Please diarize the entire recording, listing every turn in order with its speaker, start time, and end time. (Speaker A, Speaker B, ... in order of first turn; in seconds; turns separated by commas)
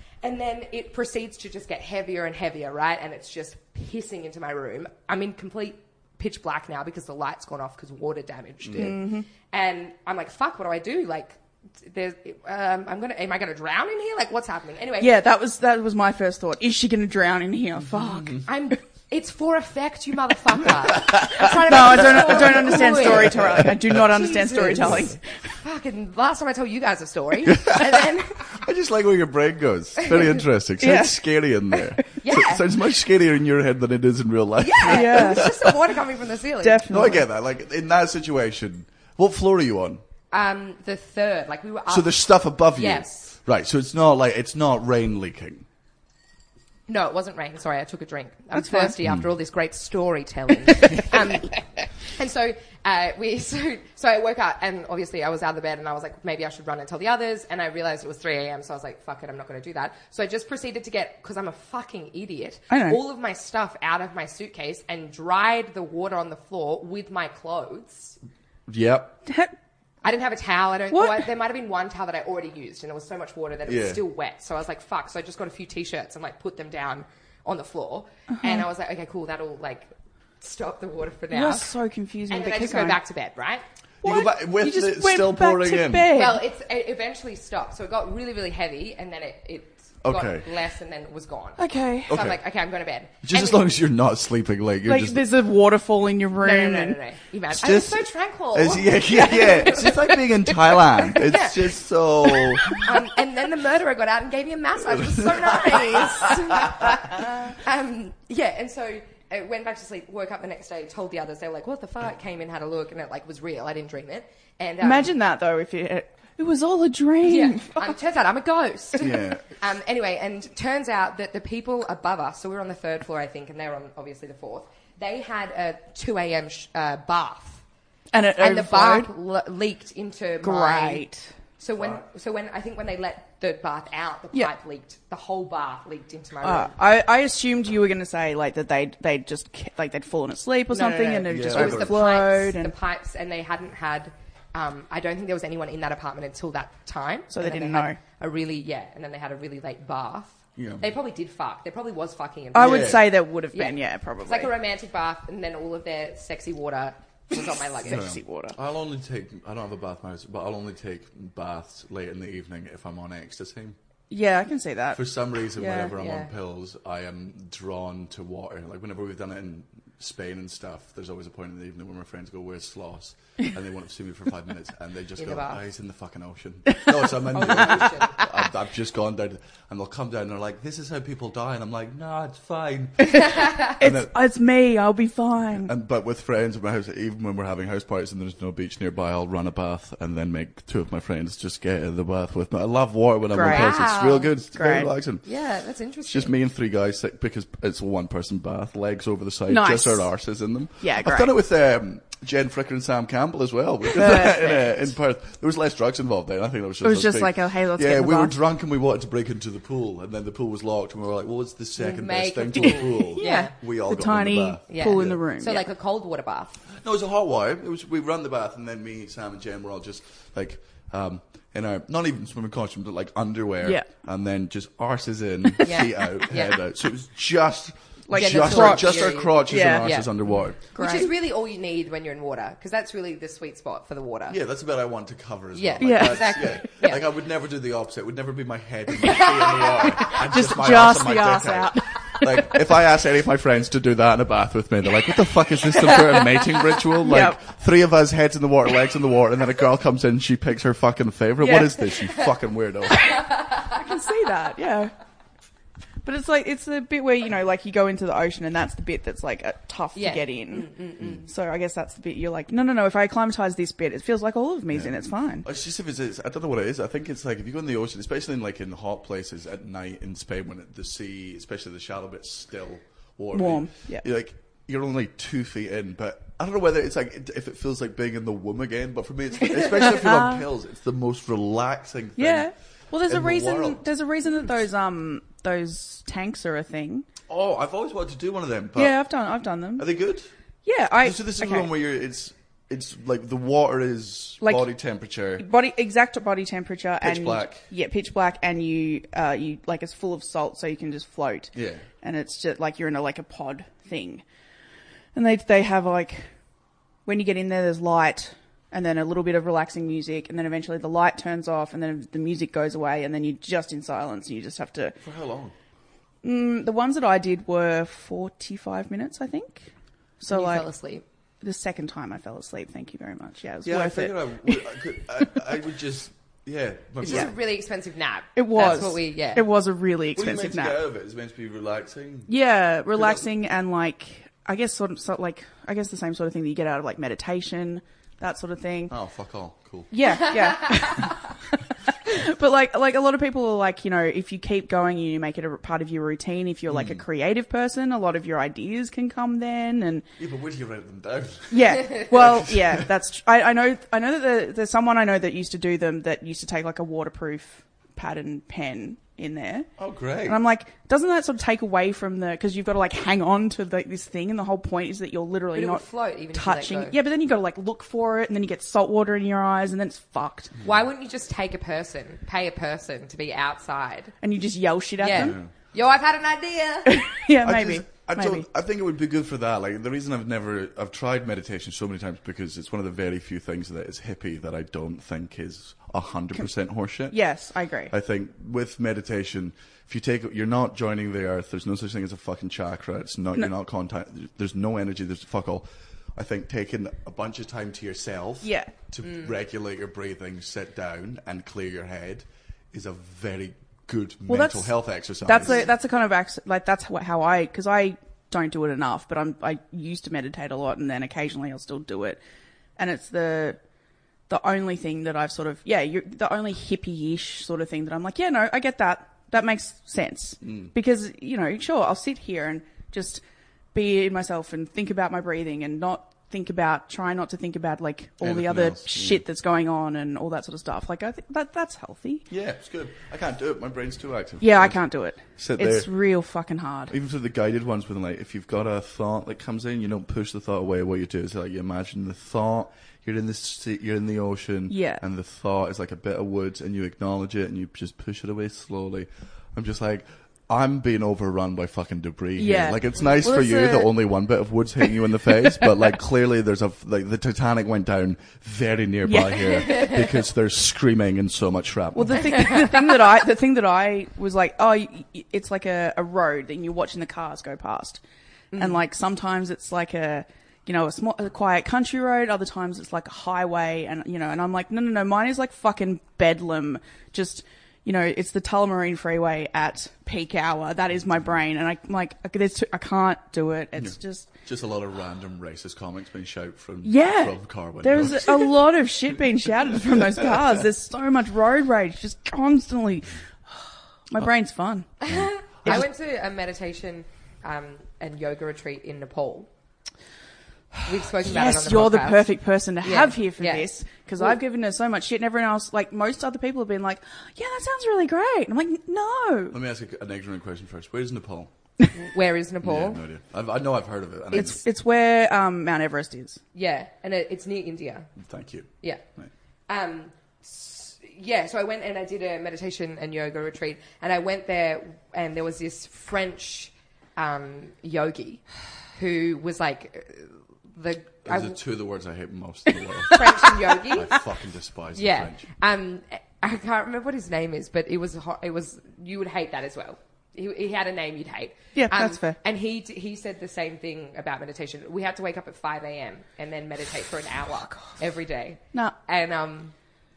Speaker A: 0.2-15.2, Speaker B: 8.7-8.9, Speaker C: 8.8-9.3, Speaker C: 15.0-18.4, Speaker A: 18.4-28.5, Speaker B: 20.9-23.8, Speaker C: 21.4-25.2, Speaker B: 27.5-35.7, Speaker C: 30.8-31.2, Speaker A: 32.2-32.6, Speaker A: 34.6-36.9, Speaker C: 34.8-35.5, Speaker C: 36.6-37.3, Speaker B: 36.9-40.0, Speaker A: 40.3-42.1, Speaker B: 41.9-45.7, Speaker A: 42.7-43.3, Speaker A: 46.9-68.2, Speaker C: 48.5-49.0, Speaker C: 62.7-63.0, Speaker B: 68.7-69.2, Speaker C: 69.3-69.5, Speaker A: 70.0-81.7, Speaker C: 70.9-71.3, Speaker B: 73.7-74.0, Speaker C: 78.4-78.6, Speaker C: 81.3-83.0, Speaker A: 82.3-83.6, Speaker B: 84.0-86.1, Speaker C: 84.0-86.4, Speaker A: 86.1-93.6, Speaker B: 90.0-90.5, Speaker C: 91.6-92.2, Speaker B: 92.1-92.4, Speaker B: 93.2-95.3, Speaker C: 94.9-97.0, Speaker A: 96.4-100.2, Speaker B: 97.5-102.9, Speaker A: 100.7-101.7, Speaker A: 102.3-115.1, Speaker B: 105.0-106.8, Speaker C: 114.8-118.0, Speaker A: 117.3-127.6, Speaker B: 119.0-119.4, Speaker C: 128.1-129.1, Speaker A: 128.4-131.1, Speaker C: 130.4-131.3, Speaker A: 131.6-136.8, Speaker B: 131.8-132.0, Speaker C: 136.4-142.7, Speaker A: 140.9-158.1, Speaker B: 140.9-142.1, Speaker C: 147.3-148.0, Speaker B: 150.6-150.9, Speaker C: 152.5-154.5, Speaker B: 152.6-153.1, Speaker C: 157.8-158.6, Speaker B: 157.9-163.8, Speaker C: 164.1-165.0, Speaker B: 164.9-184.1, Speaker C: 165.5-165.9, Speaker A: 166.0-166.3, Speaker A: 175.2-175.6, Speaker A: 177.3-178.2, Speaker C: 183.1-185.7, Speaker A: 183.3-183.7, Speaker B: 185.6-195.3, Speaker C: 193.3-193.8, Speaker A: 193.4-194.3, Speaker C: 194.5-194.9, Speaker A: 195.2-196.3, Speaker B: 196.1-215.2, Speaker C: 199.5-200.1, Speaker C: 200.8-201.3, Speaker C: 204.0-204.6, Speaker C: 206.8-208.4, Speaker A: 211.8-213.5, Speaker C: 213.2-215.6, Speaker A: 214.7-216.6, Speaker B: 216.7-230.6, Speaker A: 225.6-226.6, Speaker C: 228.1-229.9, Speaker A: 228.1-230.1, Speaker A: 230.7-234.4, Speaker C: 230.7-231.1, Speaker B: 234.3-253.3, Speaker A: 235.6-237.0, Speaker C: 235.8-236.7, Speaker A: 239.1-239.9, Speaker C: 240.1-242.7, Speaker C: 247.0-247.4, Speaker C: 251.4-252.0, Speaker C: 252.9-254.9, Speaker C: 256.0-260.7, Speaker A: 259.9-261.2, Speaker C: 261.2-265.5, Speaker B: 264.7-282.5, Speaker C: 273.3-274.1, Speaker C: 279.6-280.4, Speaker C: 282.2-287.1, Speaker B: 283.1-283.9, Speaker B: 287.3-289.1, Speaker C: 288.8-289.9, Speaker B: 289.8-290.3, Speaker C: 290.6-291.7, Speaker B: 291.0-295.5, Speaker C: 294.4-294.7, Speaker C: 295.4-304.2, Speaker B: 297.0-297.7, Speaker B: 301.6-301.9, Speaker C: 305.1-306.3, Speaker C: 307.1-315.0, Speaker B: 315.0-315.5, Speaker C: 316.2-320.7, Speaker A: 320.3-321.0, Speaker C: 321.4-324.6, Speaker B: 323.6-327.3, Speaker A: 327.0-329.5, Speaker C: 327.0-327.3, Speaker C: 328.4-330.8, Speaker B: 330.1-332.4, Speaker C: 332.3-338.9, Speaker B: 332.9-333.2, Speaker B: 338.9-339.9, Speaker C: 339.9-341.3, Speaker C: 342.1-350.1, Speaker B: 346.7-347.0, Speaker B: 350.2-352.9, Speaker C: 351.5-359.7, Speaker B: 359.8-360.4, Speaker C: 360.2-370.5, Speaker A: 365.5-367.0, Speaker A: 370.6-374.1, Speaker C: 374.2-375.4, Speaker A: 375.0-377.0, Speaker B: 375.1-375.5, Speaker C: 376.9-378.5, Speaker B: 377.4-387.2, Speaker C: 387.1-387.9, Speaker B: 387.9-405.7, Speaker C: 398.4-398.7, Speaker C: 404.3-412.2, Speaker C: 412.8-413.6, Speaker C: 414.3-423.2, Speaker B: 420.4-420.7, Speaker C: 423.7-432.3, Speaker B: 428.2-429.2, Speaker B: 432.3-435.9, Speaker C: 434.4-436.9, Speaker B: 436.9-462.4, Speaker C: 444.7-445.0, Speaker C: 452.4-454.0, Speaker C: 455.3-455.7, Speaker C: 459.1-460.0, Speaker C: 461.9-468.0, Speaker A: 468.5-468.8, Speaker C: 468.6-484.3, Speaker B: 483.8-488.6, Speaker C: 486.8-494.9, Speaker A: 495.0-499.5, Speaker A: 500.9-503.7, Speaker C: 501.2-509.6, Speaker B: 509.5-511.5, Speaker A: 511.9-513.0, Speaker B: 512.6-514.6, Speaker C: 514.3-516.4, Speaker A: 516.5-518.1, Speaker B: 518.2-519.3, Speaker A: 519.7-528.4, Speaker A: 528.9-531.6, Speaker B: 531.3-535.5, Speaker A: 533.1-534.2, Speaker A: 535.0-549.7, Speaker C: 541.8-542.4